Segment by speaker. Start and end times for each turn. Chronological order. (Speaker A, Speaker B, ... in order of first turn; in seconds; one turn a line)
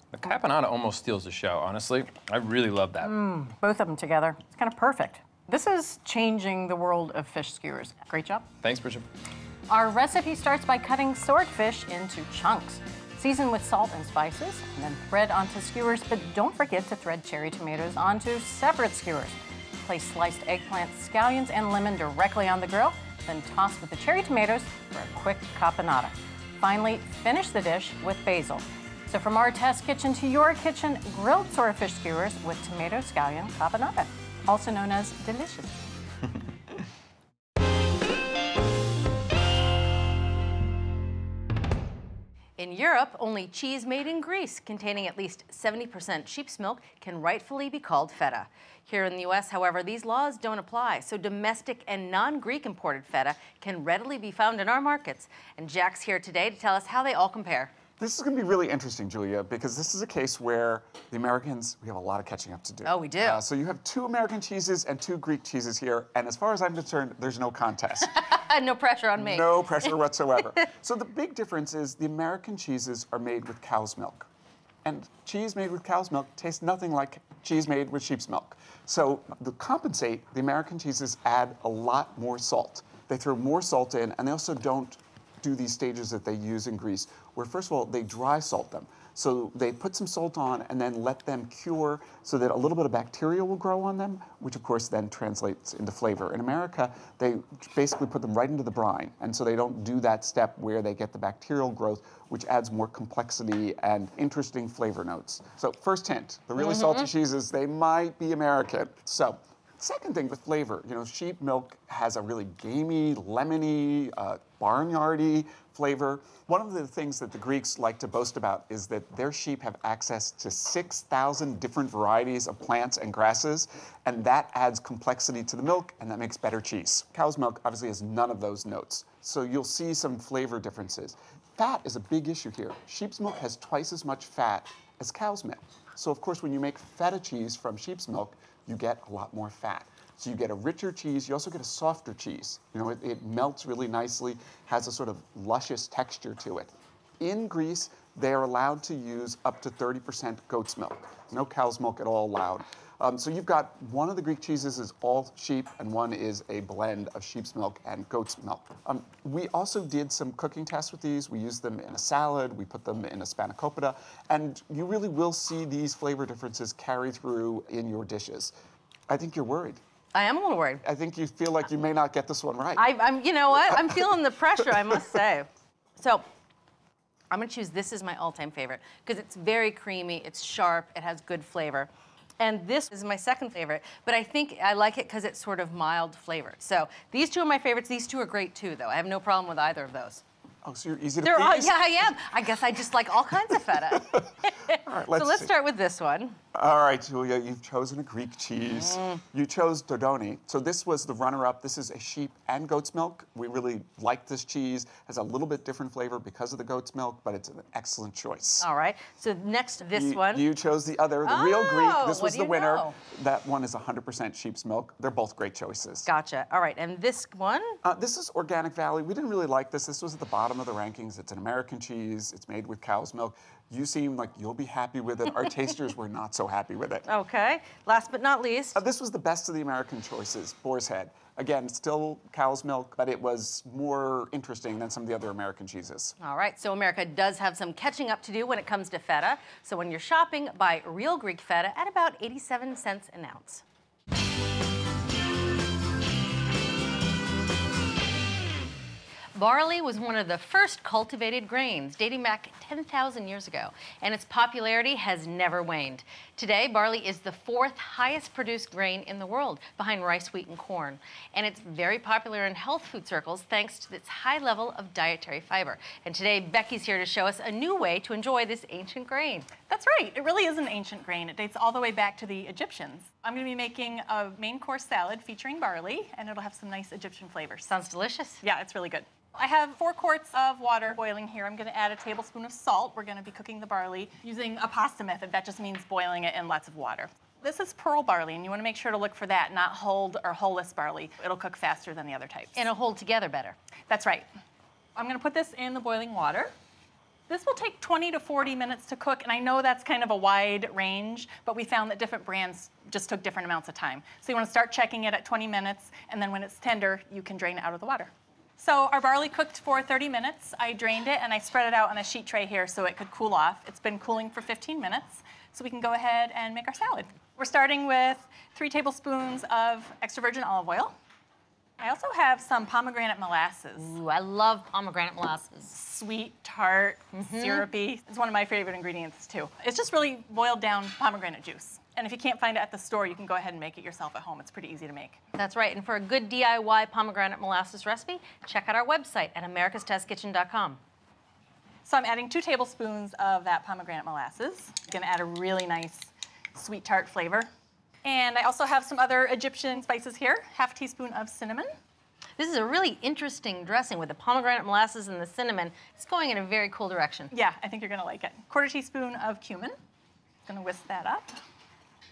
Speaker A: 0.1-3.1
Speaker B: 3.0-8.5
Speaker A: 8.6-9.1
Speaker B: 9.7-35.8
Speaker C: 42.6-57.7
Speaker D: 58.0-68.3
Speaker C: 62.8-63.4
Speaker C: 68.1-70.0
Speaker D: 69.2-74.3
Speaker D: 74.8-168.5
Speaker C: 106.6-107.0
Speaker D: 169.1-169.8
Speaker C: 170.1-170.8
Speaker D: 170.8-172.9
Speaker C: 172.8-176.2
Speaker D: 173.7-173.9
Speaker C: 177.3-190.2
Speaker D: 190.6-192.4
Speaker C: 191.2-196.4
Speaker D: 193.5-195.5
Speaker D: 196.5-208.7
Speaker C: 198.8-199.2
Speaker C: 208.6-210.5
Speaker D: 209.9-216.1
Speaker C: 211.2-212.9
Speaker C: 216.1-217.8
Speaker D: 217.8-227.1
Speaker C: 227.1-228.8
Speaker D: 228.7-236.1
Speaker C: 236.2-243.6
Speaker C: 249.3-269.5
Speaker E: 269.7-277.7
Speaker C: 277.7-278.4
Speaker E: 278.4-292.6
Speaker C: 292.6-293.6
Speaker E: 293.9-294.2
Speaker E: 294.9-296.5
Speaker E: 297.3-320.9
Speaker E: 321.8-323.9
Speaker C: 323.8-325.6
Speaker E: 325.6-335.2
Speaker C: 327.1-327.7
Speaker C: 335.4-340.8
Speaker E: 341.8-347.5
Speaker E: 348.0-351.7
Speaker C: 352.4-357.3
Speaker E: 357.3-359.7
Speaker E: 360.4-361.4